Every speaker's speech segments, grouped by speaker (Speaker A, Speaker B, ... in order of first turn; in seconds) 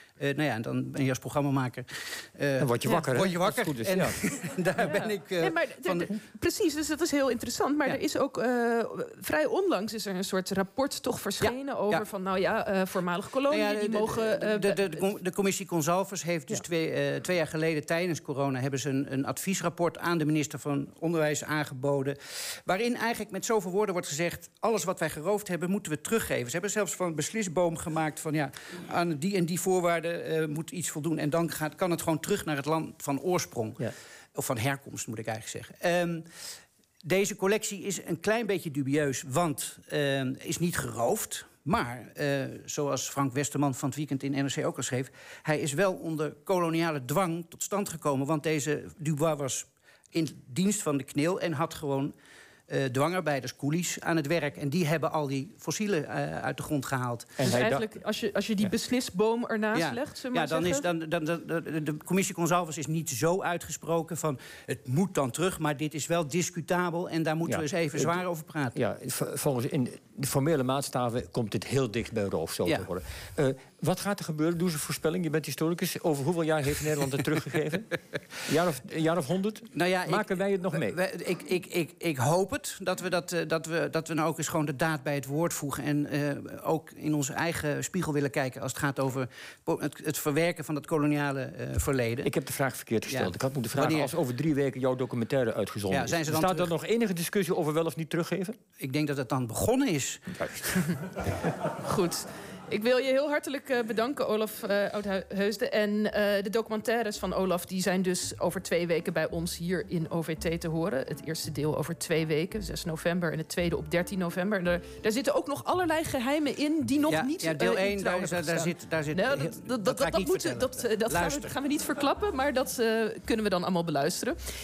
Speaker A: 0.2-6.1, 11.4-12.1, 13.5-36.2, 37.0-52.1, 52.7-57.5, 59.7-68.8, 79.7-92.3, 93.1-94.1, 95.9-96.7, 98.8-100.4, 117.1-121.5
Speaker B: 2.6-4.2, 57.4-57.9, 67.5-68.2, 68.7-81.0, 92.2-98.5, 100.3-100.7
Speaker C: 4.8-15.0, 57.4-60.9, 101.8-124.4